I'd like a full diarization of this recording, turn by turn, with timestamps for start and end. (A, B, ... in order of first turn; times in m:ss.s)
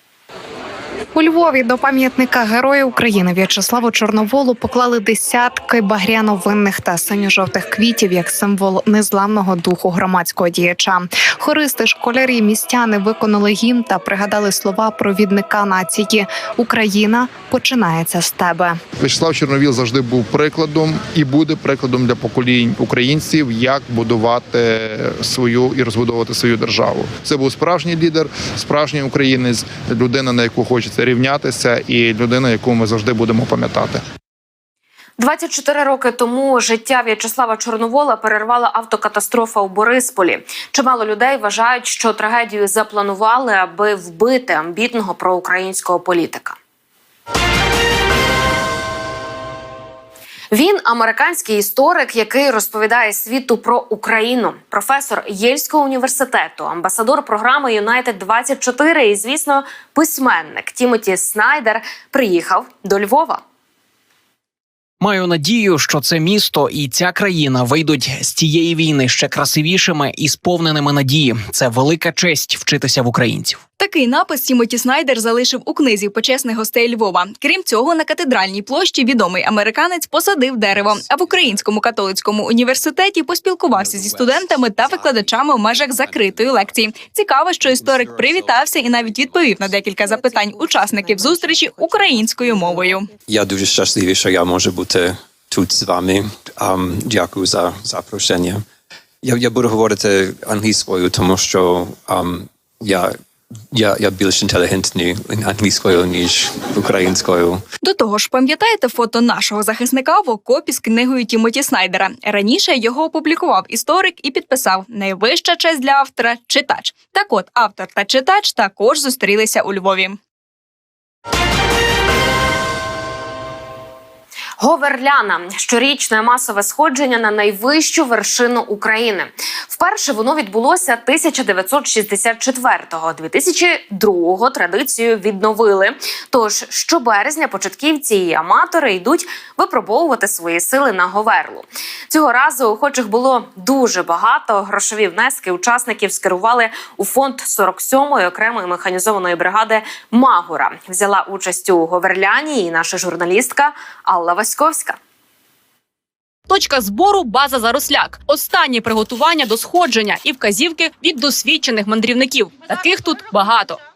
0:01.1-0:18.8 A
0:19.0-0:34.0 B
0:35.2-0:46.6 C
0:50.5-1:03.4 C
1:05.0-1:13.6 D
1:13.8-1:33.1 E
1:33.3-1:38.6 F
1:39.2-1:43.1 F
1:43.7-1:47.6 F
1:47.8-2:00.2 E
2:04.6-2:35.0 C
2:36.5-2:43.8 G